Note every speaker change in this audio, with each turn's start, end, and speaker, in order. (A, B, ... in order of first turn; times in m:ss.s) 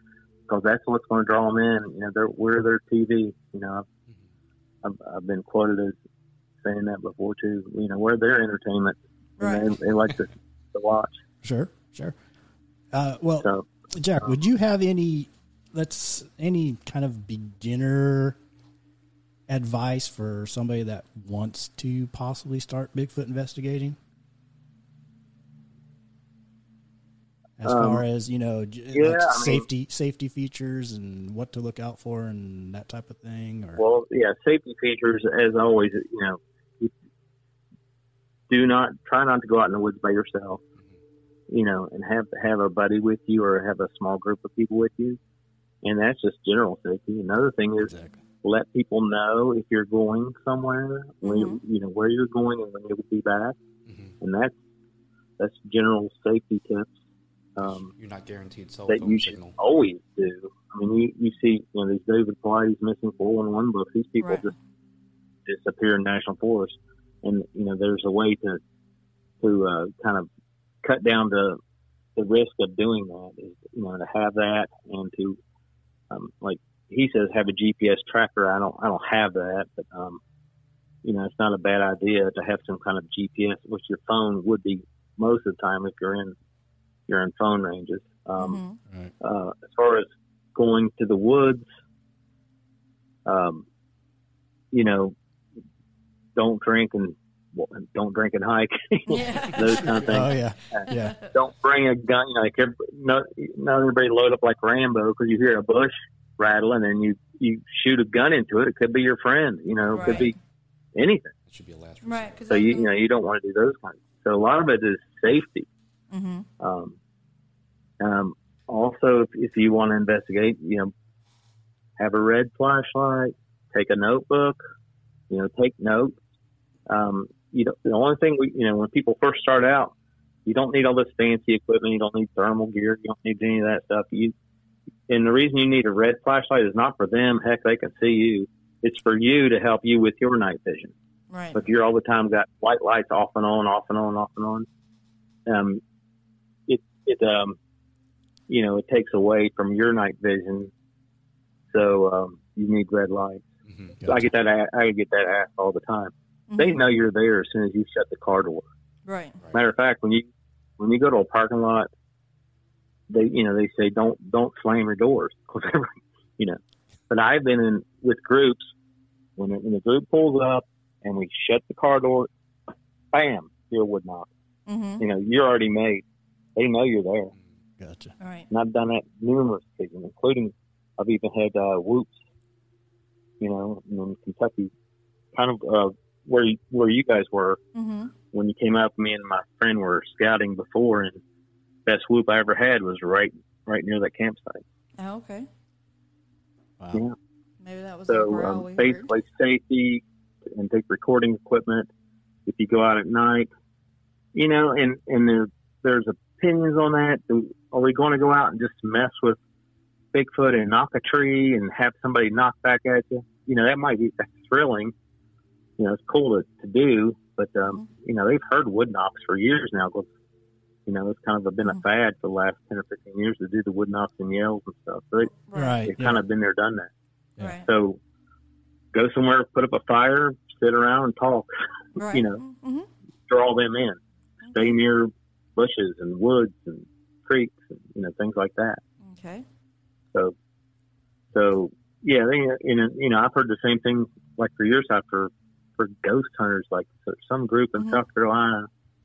0:00.5-0:03.8 A
0:04.8-0:06.0 A
0:06.6-0:11.1 A
0:09.4-0:09.7 B
0:11.4-0:12.2 C
0:12.9-0:18.4 C
0:13.4-0:13.7 A
0:19.5-0:24.0 C
0:27.6-0:33.8 C
0:27.6-0:28.0 A
0:28.9-0:29.6 A
0:33.8-0:36.9 A
0:38.5-0:40.6 A
0:41.5-0:45.2 A
0:45.8-0:47.9 A
0:47.8-0:48.2 C
0:48.4-0:53.6 A
0:51.2-0:51.6 B
0:53.8-0:54.1 D
0:54.2-0:54.6 A
0:55.4-0:56.9 A
0:57.6-0:57.9 A
0:57.6-0:59.6 D
0:58.9-1:04.5 A
1:04.2-1:04.5 B
1:05.4-1:08.6 A
1:09.4-1:10.3 A
1:10.8-1:11.6 A
1:12.2-1:15.4 A
1:16.1-1:20.2 A
1:21.0-1:26.3 A
1:27.1-1:28.6 A
1:28.4-1:28.8 B
1:29.2-1:31.7 A
1:33.2-1:33.6 A
1:34.7-1:35.1 A
1:36.3-1:50.3 A
1:39.1-1:40.2 B
1:39.8-1:40.2 D
1:40.1-1:41.2 C
1:40.9-1:41.3 B
1:49.8-1:50.3 D
1:49.9-1:50.3 B
1:50.9-1:51.3 A
1:51.5-1:52.7 D
1:52.0-1:52.9 B
1:52.5-1:55.7 A
1:56.1-1:56.5 B
1:56.6-1:57.0 A
1:58.0-2:00.9 A
2:02.0-2:04.6 A
2:05.3-2:06.2 A
2:06.9-2:09.9 A
2:10.4-2:14.3 A
2:15.1-2:20.9 A
2:21.3-2:21.6 B
2:21.5-2:24.6 A
2:25.4-2:25.8 A
2:26.7-2:27.6 A
2:28.5-2:30.7 A
2:31.7-2:33.4 A
2:33.7-2:34.0 D
2:34.0-2:34.3 C
2:34.0-2:38.6 A
2:36.5-2:36.8 B
2:39.0-2:39.4 B
2:39.5-2:41.9 A
2:43.1-2:46.6 A
2:47.1-2:48.7 A
2:49.4-2:52.3 A
2:53.1-2:54.3 A
2:54.7-2:55.0 B
2:55.0-2:56.0 A
2:56.6-2:57.3 A
2:57.8-2:58.1 C
2:58.2-2:58.5 B
2:58.5-3:02.1 A
3:03.4-3:04.7 A
3:05.3-3:07.6 A
3:07.7-3:08.1 B
3:08.3-3:11.2 A
3:11.8-3:14.6 A
3:15.0-3:15.5 B
3:16.8-3:17.0 C
3:17.6-3:19.1 B
3:18.1-3:21.9 A
3:22.4-3:23.5 A
3:24.3-3:29.4 A
3:30.1-3:34.9 A
3:35.8-3:40.1 A
3:40.8-3:45.3 A
3:45.5-3:45.8 B
3:45.5-3:46.2 C
3:45.8-3:46.9 A
3:47.4-3:47.6 B
3:47.6-3:48.0 A
3:48.9-3:51.5 A
3:52.0-3:52.9 B
3:52.1-3:52.4 A
3:53.3-3:54.0 A
3:54.4-3:54.7 B
3:54.5-3:58.8 A
3:59.0-3:59.4 B
4:01.3-4:08.7 A